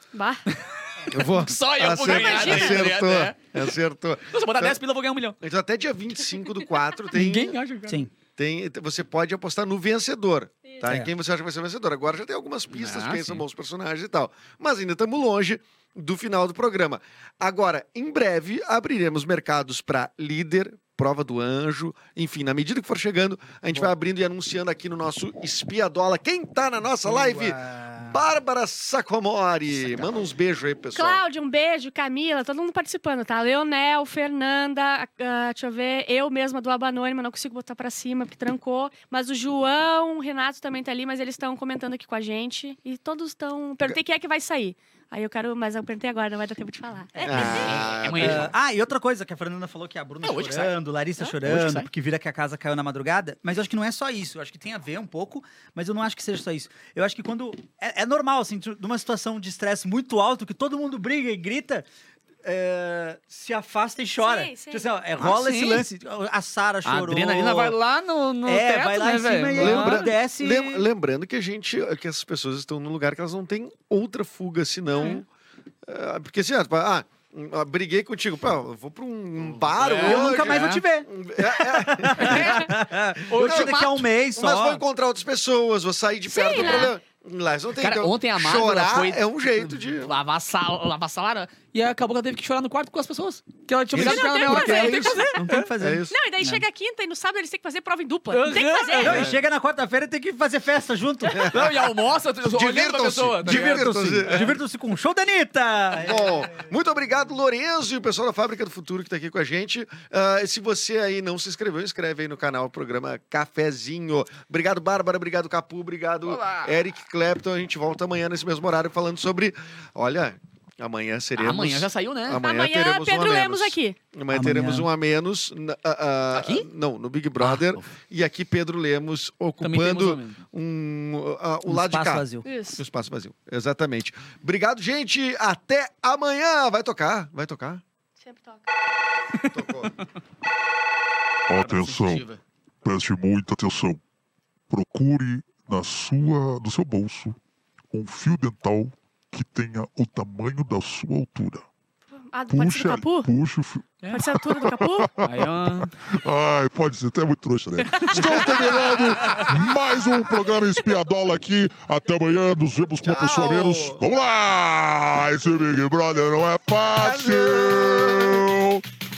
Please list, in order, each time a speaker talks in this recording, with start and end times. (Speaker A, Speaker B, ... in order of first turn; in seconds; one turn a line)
Speaker A: 0.1-0.4
Speaker B: 0.5-3.5
Speaker C: 1.1-4.8
Speaker A: 2.0-2.8
Speaker B: 4.3-5.4
Speaker C: 5.4-7.6
Speaker B: 7.1-8.0
Speaker D: 7.9-8.1
Speaker C: 8.4-31.2
Speaker D: 10.8-11.1
Speaker B: 12.7-13.4
Speaker D: 27.0-28.2
Speaker B: 29.7-30.1
Speaker A: 30.9-47.6
Speaker D: 47.1-61.9
Speaker C: 47.2-48.5
Speaker B: 47.3-48.5
Speaker B: 50.2-50.7
Speaker B: 51.4-51.9
Speaker D: 62.4-67.8
Speaker A: 64.2-64.9
Speaker B: 65.2-65.8
Speaker B: 66.8-70.0
Speaker D: 68.5-70.8
Speaker C: 69.6-75.3
Speaker C: 75.9-82.7
Speaker B: 79.4-80.8
Speaker D: 80.0-84.8
Speaker B: 82.2-82.7
Speaker B: 83.3-84.1
Speaker C: 83.3-83.7
Speaker C: 84.4-90.1
Speaker A: 86.3-86.9
Speaker B: 86.5-86.9
Speaker B: 87.8-95.7
Speaker C: 94.0-95.2
Speaker D: 94.0-96.6
Speaker A: 94.0-95.4
Speaker C: 95.8-96.2
Speaker A: 96.1-99.2
Speaker B: 98.3-99.4
Speaker D: 99.0-101.7
Speaker C: 101.3-101.7
Speaker B: 101.5-104.5
Speaker C: 102.4-104.6
Speaker D: 103.4-106.4
Speaker C: 106.0-137.8
Speaker B: 116.2-116.8
Speaker B: 121.4-122.4
Speaker A: 122.4-124.0
Speaker D: 124.3-124.9
Speaker B: 126.3-126.7
Speaker B: 127.4-127.9
Speaker B: 129.6-130.4
Speaker D: 131.7-132.5
Speaker A: 132.4-132.8
Speaker A: 138.2-138.6
Speaker C: 139.5-139.9
Speaker E: 141.5-142.3
Speaker B: 141.6-142.4
Speaker E: 142.8-144.0
Speaker E: 144.7-147.4
Speaker E: 147.9-151.7
Speaker A: 152.3-153.3
Speaker E: 152.5-168.8
Speaker A: 154.1-155.1
Speaker B: 155.2-155.9
Speaker A: 157.9-158.5
Speaker B: 158.0-159.5
Speaker C: 163.0-164.0
Speaker C: 167.0-168.5